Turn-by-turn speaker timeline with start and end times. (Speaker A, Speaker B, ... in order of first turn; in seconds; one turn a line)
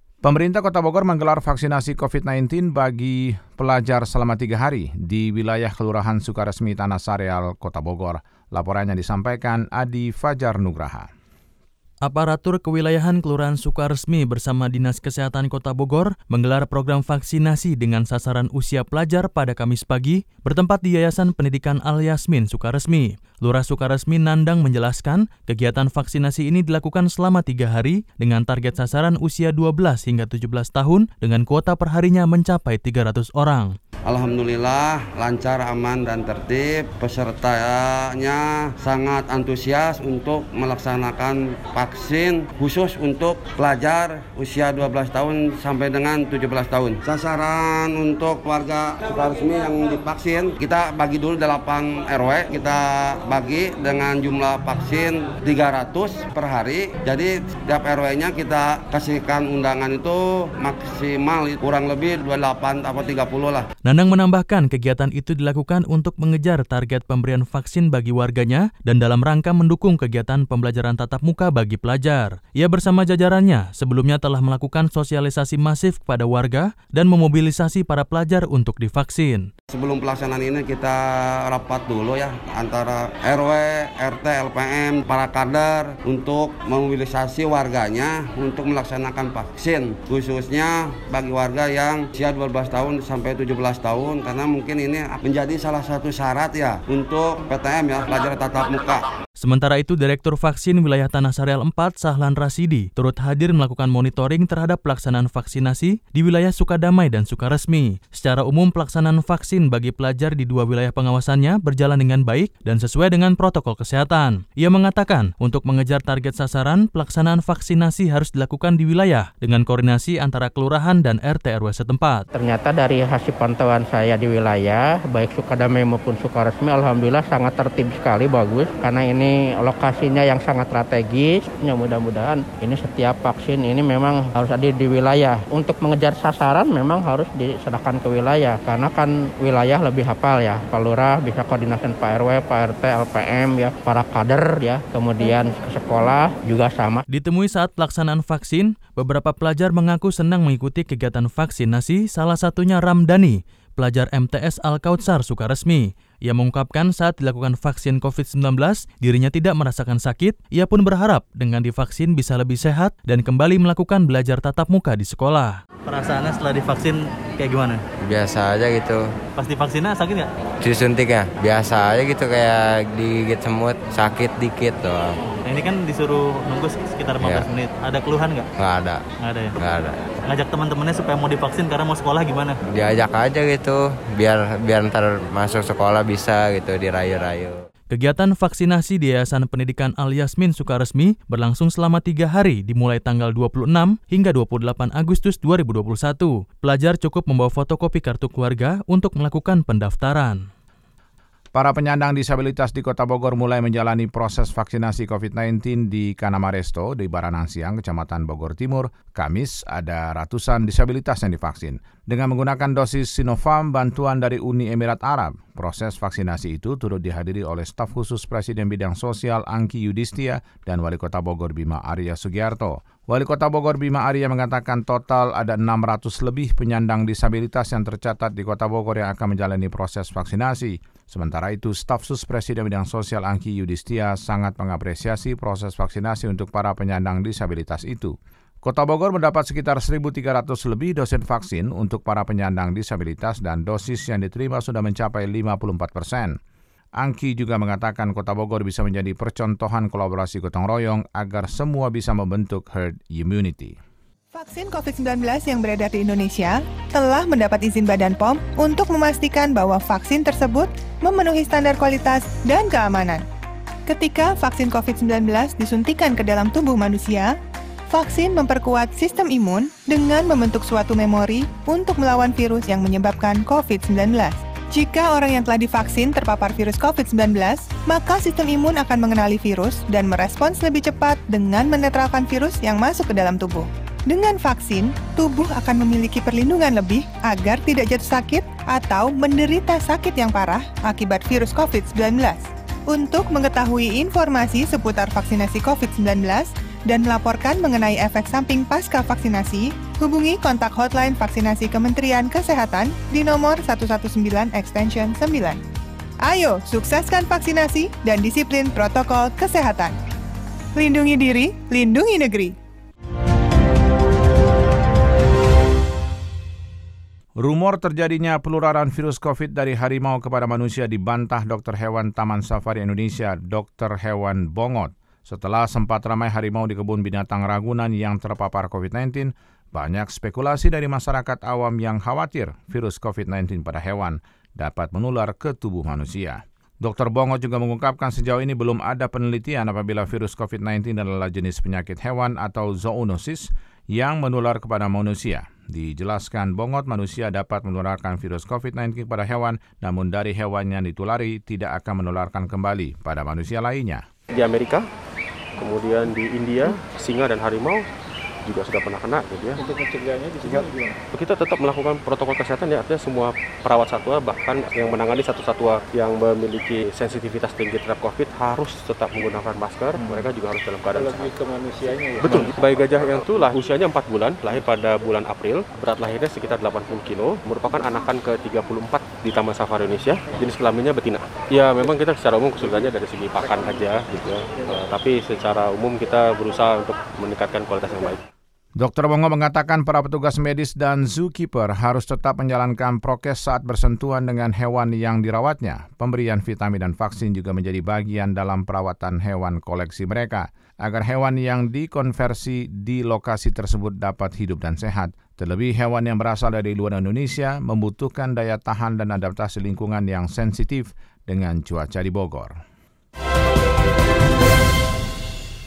Speaker A: 0.2-11.1
Speaker B: 12.0-33.8
Speaker C: 34.1-63.7
Speaker B: 63.9-79.5
Speaker C: 79.7-99.1
Speaker B: 99.4-122.2
Speaker D: 122.3-147.0
Speaker B: 147.1-165.6
Speaker E: 165.8-167.8
Speaker F: 168.0-169.0
Speaker E: 169.4-170.3
Speaker F: 170.6-175.2
Speaker E: 175.4-178.4
Speaker F: 178.6-179.0
Speaker E: 179.2-179.5
Speaker F: 179.6-180.0
Speaker E: 180.2-182.6
Speaker F: 182.7-187.5
Speaker B: 187.9-200.5
Speaker A: 201.5-246.4
Speaker A: 247.0-253.8
Speaker G: 254.3-263.2
Speaker G: 263.9-267.4
Speaker G: 267.9-305.6
Speaker G: 306.2-310.0
Speaker G: 310.7-312.5
Speaker A: 317.4-354.0
Speaker H: 354.3-354.8
Speaker H: 355.6-357.9
Speaker H: 358.4-359.6
Speaker I: 359.6-361.0
Speaker H: 360.4-371.3
Speaker I: 369.9-370.3
Speaker I: 370.9-372.5
Speaker H: 372.2-388.2
Speaker A: 388.8-412.6